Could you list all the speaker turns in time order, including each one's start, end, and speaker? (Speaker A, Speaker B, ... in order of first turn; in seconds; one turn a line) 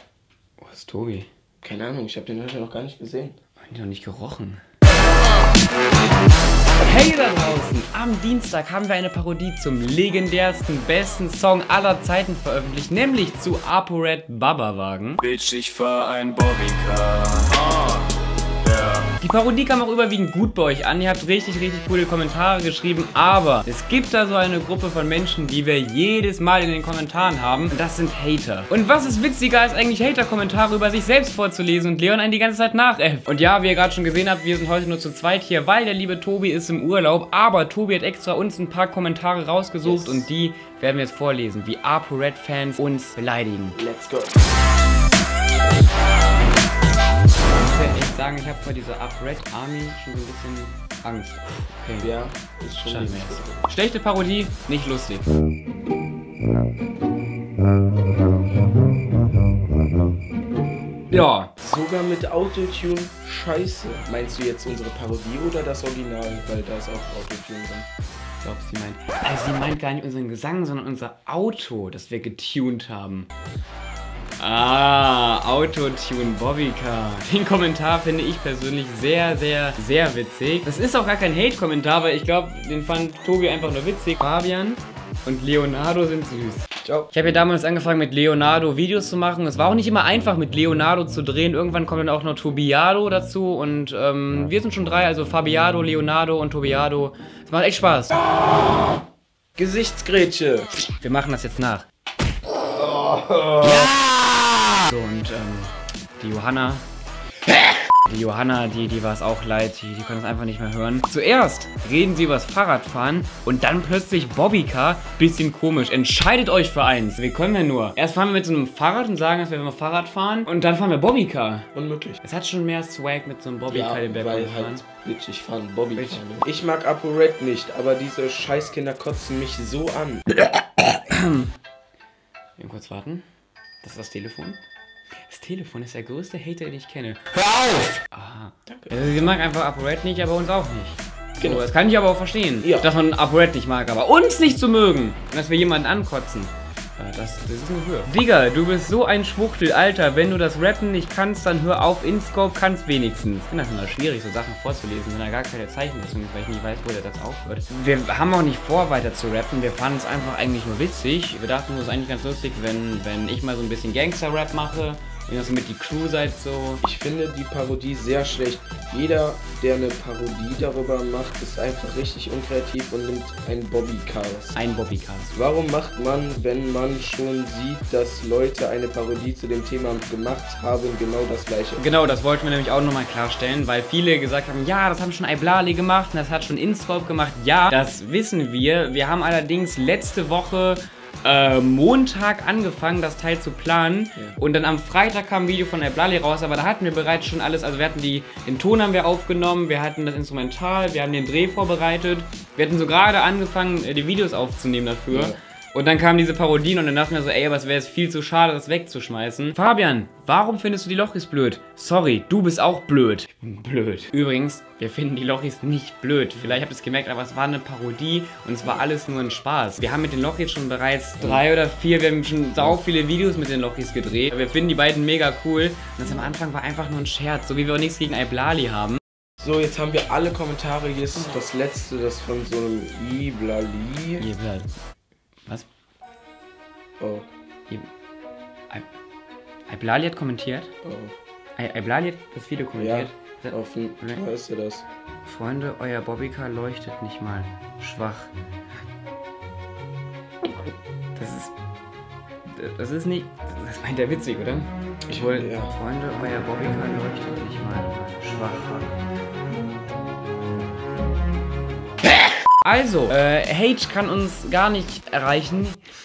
Speaker A: 0.6-1.3
Speaker B: 1.6-3.4
Speaker A: 3.6-4.6
Speaker A: 6.8-15.3
Speaker C: 15.2-18.0
Speaker C: 18.6-19.1
Speaker A: 19.2-43.8
Speaker B: 39.8-40.3
Speaker B: 43.8-44.5
Speaker A: 47.5-52.1
Speaker B: 52.0-53.7
Speaker A: 52.8-55.3
Speaker A: 61.1-61.5
Speaker B: 61.6-67.9
Speaker A: 68.4-73.3
Speaker A: 74.4-98.2
Speaker B: 86.8-87.1
Speaker B: 99.6-100.7
Speaker A: 101.0-101.9
Speaker B: 102.8-103.6
Speaker A: 103.6-104.1
Speaker A: 104.8-106.8
Speaker A: 108.0-121.7
Speaker B: 121.7-122.2
Speaker A: 122.2-124.8
Speaker B: 123.7-130.2
Speaker A: 126.0-126.2
Speaker A: 130.4-131.6
Speaker A: 132.6-133.2
Speaker A: 133.8-134.6
Speaker A: 135.3-166.8
Speaker B: 138.7-139.4
Speaker B: 141.4-141.7
Speaker B: 142.6-142.9
Speaker B: 166.8-174.6
Speaker A: 174.6-175.4
Speaker B: 175.3-181.8
Speaker A: 181.8-229.0
Speaker B: 205.1-205.4
Speaker B: 226.0-226.4
Speaker B: 229.4-234.3
Speaker A: 234.2-234.8
Speaker B: 237.0-237.3
Speaker A: 239.7-240.7
Speaker B: 240.8-241.2
Speaker A: 241.6-244.2
Speaker B: 242.8-244.8
Speaker A: 245.2-248.3
Speaker A: 251.2-251.5
Speaker A: 252.5-258.9
Speaker B: 255.1-255.7
Speaker A: 262.6-265.8